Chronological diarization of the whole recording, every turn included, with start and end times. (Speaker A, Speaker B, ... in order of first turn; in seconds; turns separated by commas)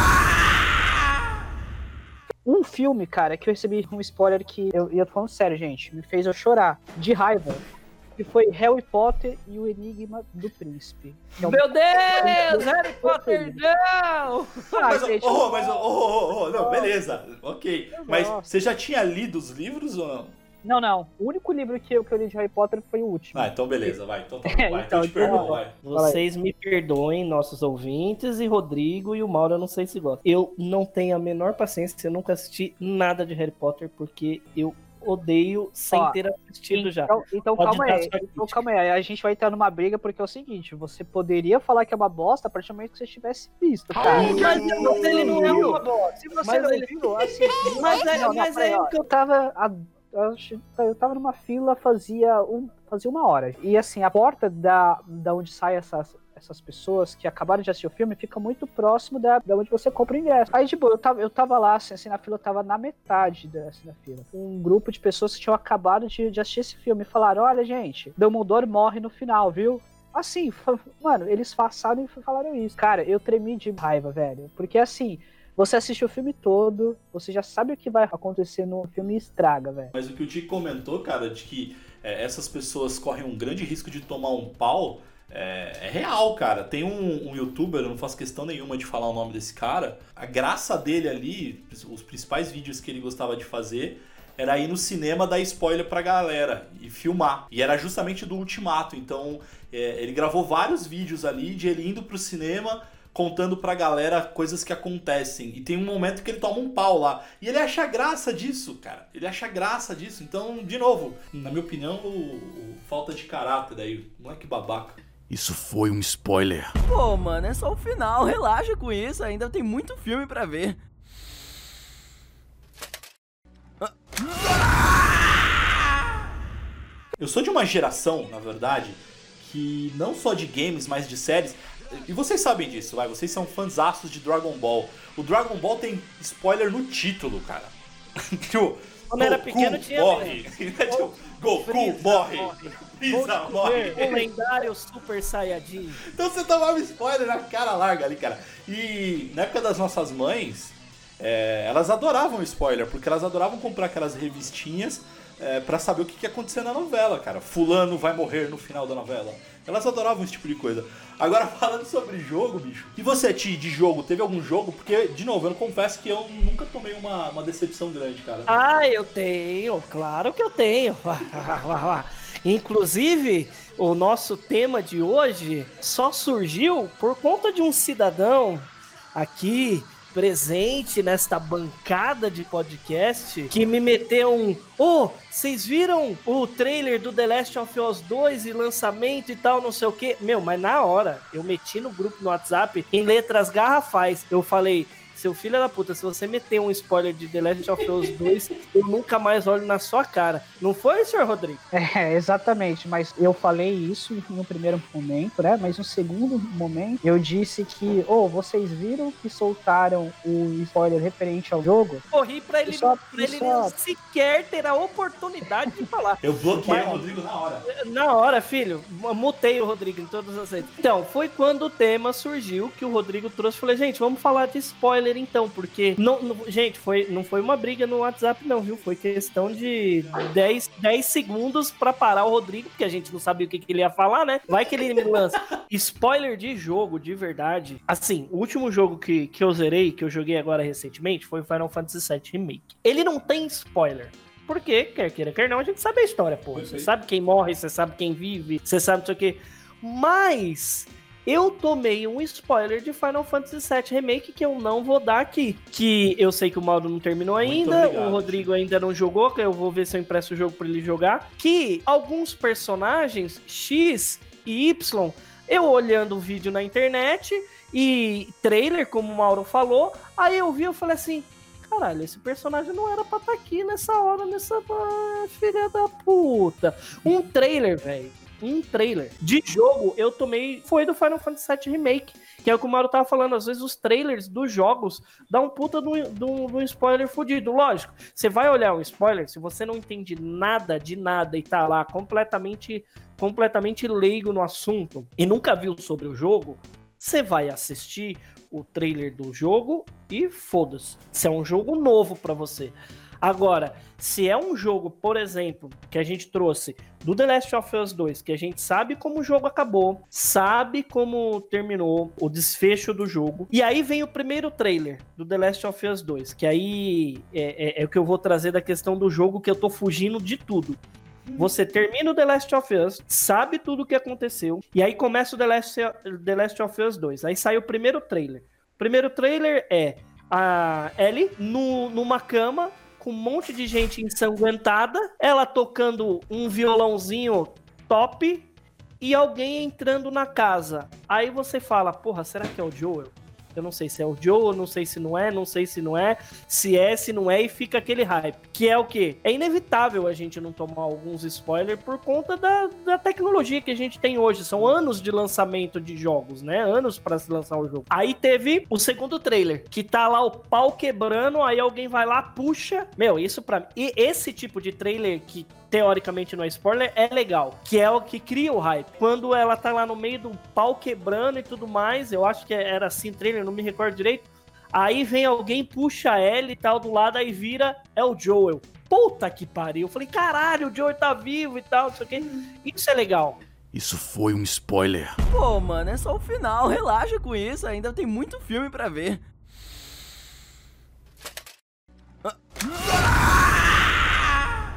Speaker A: 2.5-7.6, Speaker A: 8.2-13.6, Speaker B: 11.4-14.9, Speaker A: 14.7-17.0, Speaker C: 14.8-20.3, Speaker A: 17.9-18.5, Speaker A: 20.6-26.2, Speaker C: 23.3-25.8, Speaker B: 25.2-38.6, Speaker A: 35.9-36.2, Speaker A: 36.7-79.9, Speaker B: 44.1-49.1, Speaker C: 44.1-45.0, Speaker C: 79.9-115.0, Speaker D: 115.3-116.8, Speaker E: 116.9-120.8, Speaker C: 127.2-137.8, Speaker C: 138.3-144.2, Speaker B: 139.1-146.0, Speaker A: 143.7-144.0, Speaker C: 146.0-168.5, Speaker B: 168.5-201.6, Speaker A: 201.7-212.1, Speaker B: 212.1-217.0, Speaker A: 212.7-213.7, Speaker C: 216.2-217.7, Speaker B: 217.7-320.8, Speaker C: 246.5-246.9, Speaker C: 257.4-258.5, Speaker B: 321.4-338.5, Speaker B: 339.0-383.4, Speaker D: 383.7-385.2, Speaker E: 385.2-389.2